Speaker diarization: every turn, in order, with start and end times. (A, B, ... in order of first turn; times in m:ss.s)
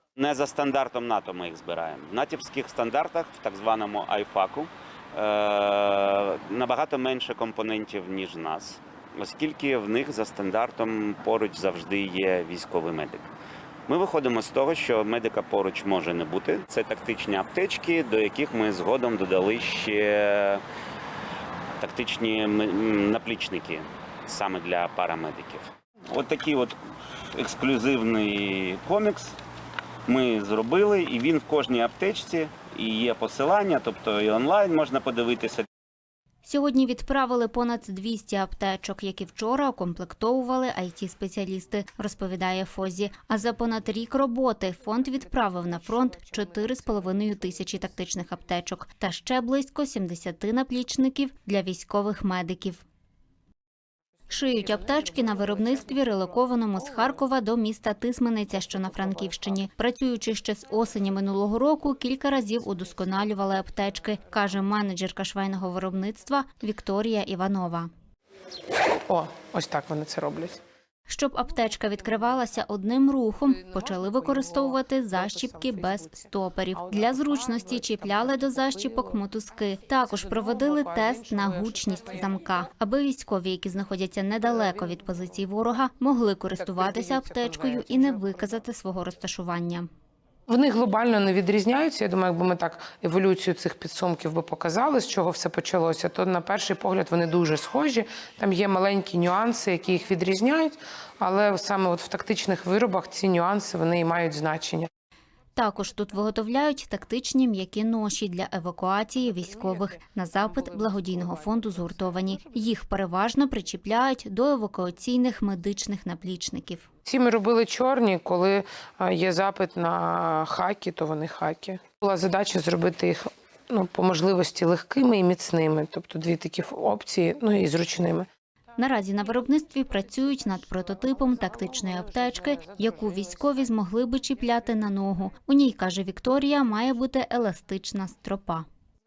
0:00.2-0:13.2 A
0:13.9-0:20.6 A
0:21.8-0:26.8 A
0:27.4-0:29.3 A
0:30.1-0:35.7 A
0:36.4-0:52.8 B
0:45.0-0:47.9 C
0:54.3-1:07.9 B
0:54.4-0:57.0 C
0:58.6-0:59.6 C
1:09.0-1:10.6 C
1:11.1-1:29.9 B
1:13.4-1:19.2 C
1:20.0-1:22.7 C
1:24.4-1:25.4 C
1:26.5-1:28.6 C
1:30.5-1:44.9 C
1:45.6-1:56.9 B
1:49.3-1:52.5 C
1:57.0-2:08.3 C
2:08.8-2:18.6 B
2:10.3-2:13.8 C